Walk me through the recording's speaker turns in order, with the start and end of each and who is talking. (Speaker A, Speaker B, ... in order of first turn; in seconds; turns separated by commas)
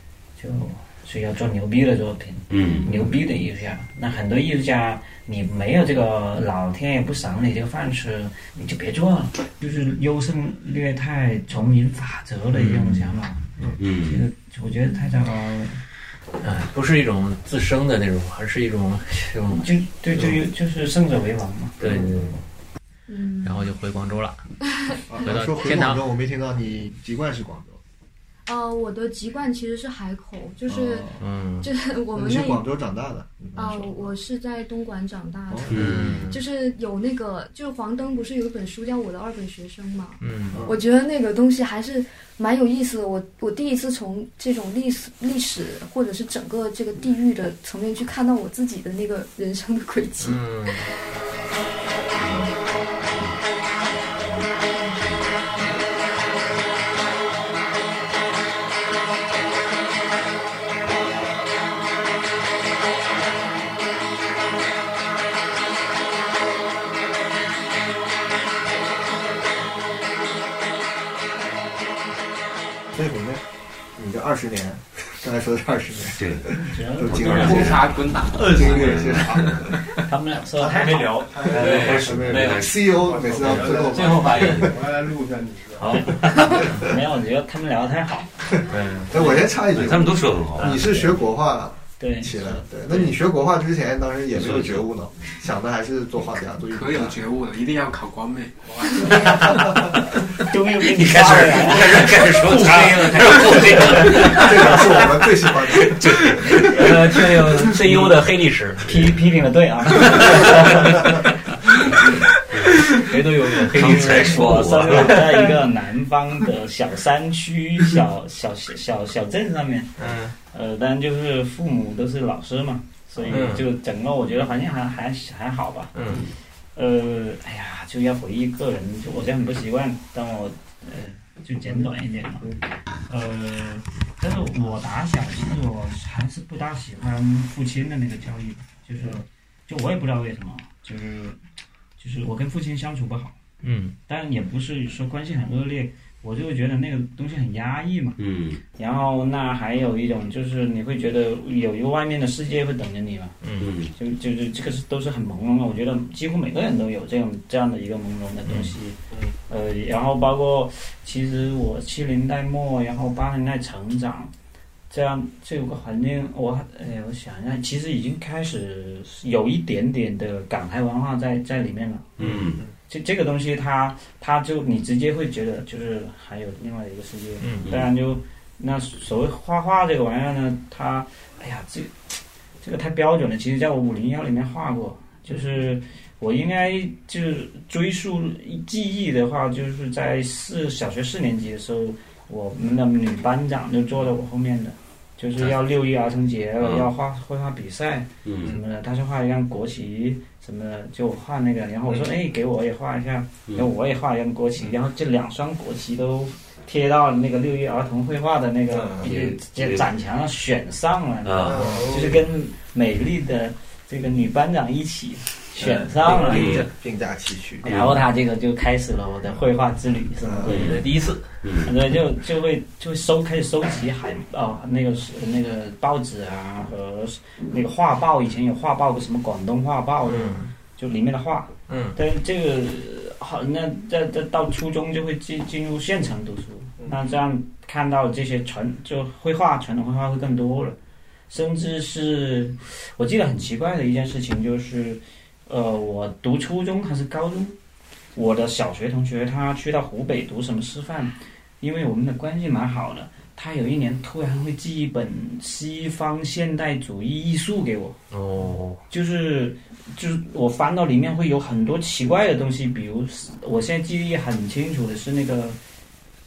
Speaker A: 0.4-15.8, Speaker B: 2.5-3.0, Speaker C: 12.5-13.2, Speaker B: 13.8-14.2, Speaker C: 16.4-20.4, Speaker A: 19.5-21.8, Speaker C: 21.8-22.4, Speaker D: 21.9-22.3, Speaker E: 23.1-23.7, Speaker C: 23.4-24.4, Speaker D: 25.1-27.8, Speaker C: 25.2-26.1, Speaker E: 28.5-32.7, Speaker D: 30.7-31.2, Speaker C: 31.2-31.7, Speaker D: 32.1-34.1, Speaker E: 33.5-50.9, Speaker D: 35.5-36.2, Speaker C: 35.7-36.4, Speaker B: 35.7-36.1, Speaker C: 40.2-40.6, Speaker D: 40.5-40.8, Speaker C: 50.2-50.9, Speaker E: 52.2-52.5, Speaker E: 54.7-55.1, Speaker D: 72.9-73.4, Speaker D: 74.0-79.8, Speaker B: 76.2-79.7, Speaker A: 76.6-77.6, Speaker F: 77.4-79.8, Speaker A: 80.0-81.2, Speaker C: 80.6-85.0, Speaker D: 80.6-85.0, Speaker B: 81.6-82.9, Speaker B: 84.3-84.7, Speaker C: 85.8-86.8, Speaker A: 85.8-88.3, Speaker B: 85.9-86.5, Speaker C: 88.7-89.3, Speaker D: 89.1-97.2, Speaker B: 89.7-90.8, Speaker A: 90.6-91.1, Speaker A: 92.0-92.5, Speaker B: 94.3-94.9, Speaker F: 96.8-98.8, Speaker C: 99.0-99.9, Speaker A: 100.3-102.2, Speaker C: 100.8-109.1, Speaker B: 101.7-103.8, Speaker D: 104.2-106.8, Speaker A: 108.9-111.2, Speaker C: 110.2-111.0, Speaker C: 113.0-115.6, Speaker B: 113.7-115.3, Speaker A: 113.8-126.0, Speaker C: 120.0-120.3, Speaker C: 123.3-123.7, Speaker C: 125.9-126.2, Speaker A: 126.8-132.5, Speaker A: 133.1-141.4, Speaker A: 142.0-143.4, Speaker C: 143.6-144.0, Speaker A: 144.1-148.2, Speaker B: 148.2-148.6, Speaker A: 148.8-159.0, Speaker C: 153.4-153.7, Speaker B: 153.6-153.9, Speaker C: 158.5-158.7, Speaker A: 159.5-164.3, Speaker A: 164.9-172.4, Speaker B: 172.2-172.6, Speaker A: 172.9-182.1, Speaker C: 177.4-177.7, Speaker A: 182.6-216.6, Speaker B: 196.6-196.9, Speaker B: 198.2-198.6, Speaker B: 209.0-209.8, Speaker B: 211.2-211.8, Speaker D: 211.4-212.2, Speaker C: 215.6-216.6, Speaker D: 216.1-217.7, Speaker B: 216.3-216.7, Speaker A: 217.6-220.8, Speaker D: 220.2-220.5, Speaker B: 220.5-220.8, Speaker C: 220.5-221.3, Speaker B: 221.4-221.8, Speaker A: 221.6-240.8, Speaker C: 230.0-230.5, Speaker C: 231.7-232.0, Speaker A: 241.3-247.6, Speaker A: 248.2-258.0, Speaker C: 258.1-258.8, Speaker A: 258.9-265.6